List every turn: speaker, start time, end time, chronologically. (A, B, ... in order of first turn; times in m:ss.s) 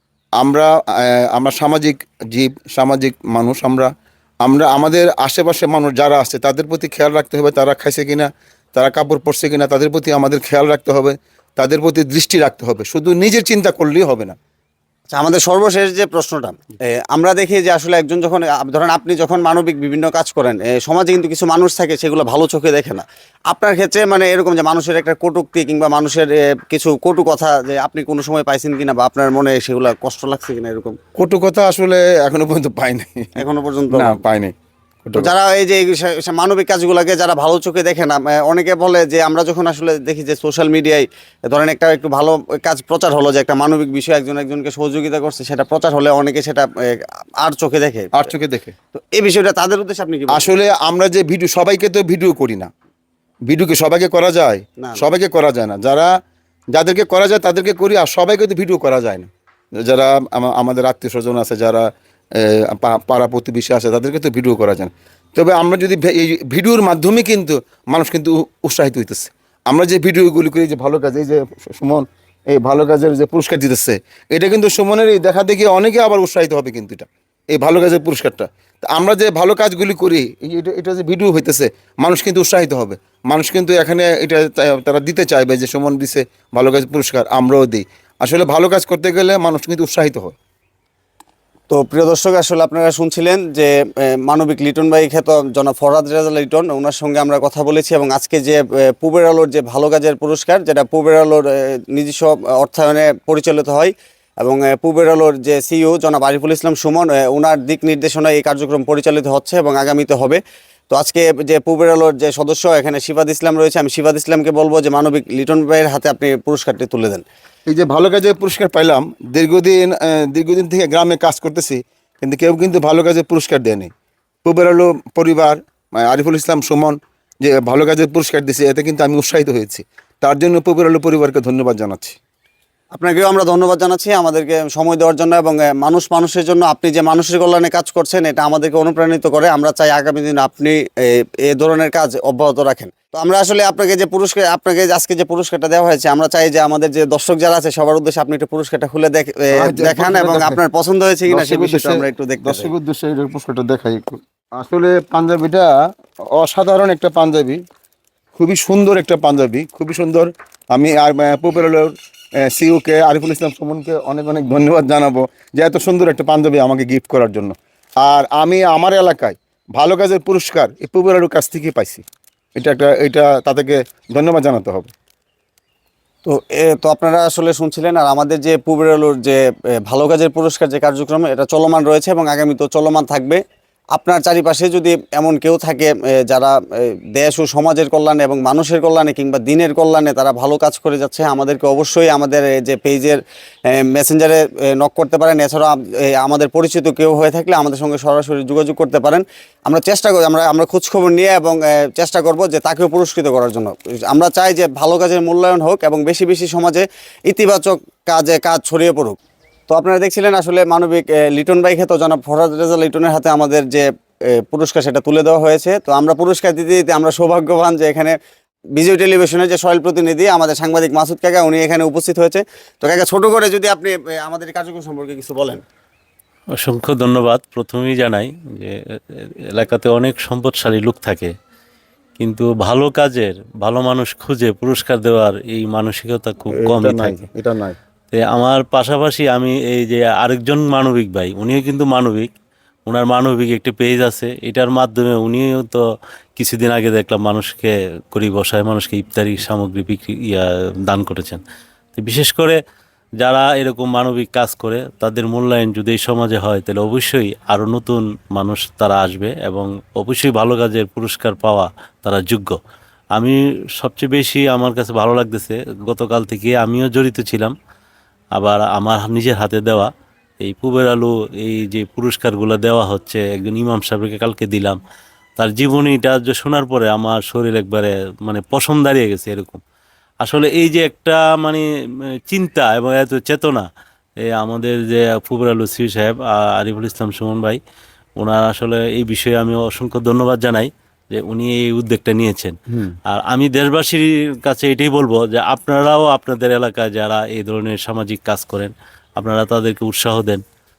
0:00.4-0:03.9 A
0:04.4-0:14.4 A
0:15.1-0:31.0 B
0:31.1-0:33.4 A
0:33.4-0:34.2 B
0:33.9-0:34.5 A
0:35.0-0:35.3 A
0:35.2-0:48.3 B
0:48.1-0:48.7 A
0:48.9-0:50.5 B
0:50.3-0:52.7 A
0:53.5-0:56.1 A
0:56.7-0:59.3 A
0:59.8-1:30.3 A
1:31.7-1:57.2 B
1:57.7-2:03.9 A
2:04.4-2:12.2 A
2:12.9-2:32.7 B
2:29.5-2:30.6 A
2:31.3-2:35.7 A
2:36.3-2:37.6 A
2:38.3-2:41.9 A
2:42.4-2:52.0 A
2:52.6-2:54.9 A
2:56.2-3:03.4 B
3:03.9-3:29.2 B
3:29.7-3:38.1 B
3:38.8-3:45.6 B
3:46.6-3:51.3 C
3:52.2-3:57.2 C
3:56.5-3:57.8 A
3:58.1-4:02.3 C
4:02.9-4:05.8 C
4:06.4-4:11.4 C
4:12.0-4:12.6 C
4:13.2-4:22.6 C
4:23.2-4:27.5 C
4:28.4-4:29.9 C
4:30.4-4:34.8 C
4:35.4-4:39.6 C
4:40.2-4:41.6 C
4:42.3-4:43.6 C
4:44.3-4:47.6 C
4:48.2-4:52.5 C
4:52.7-4:53.0 A
4:53.1-5:00.4 C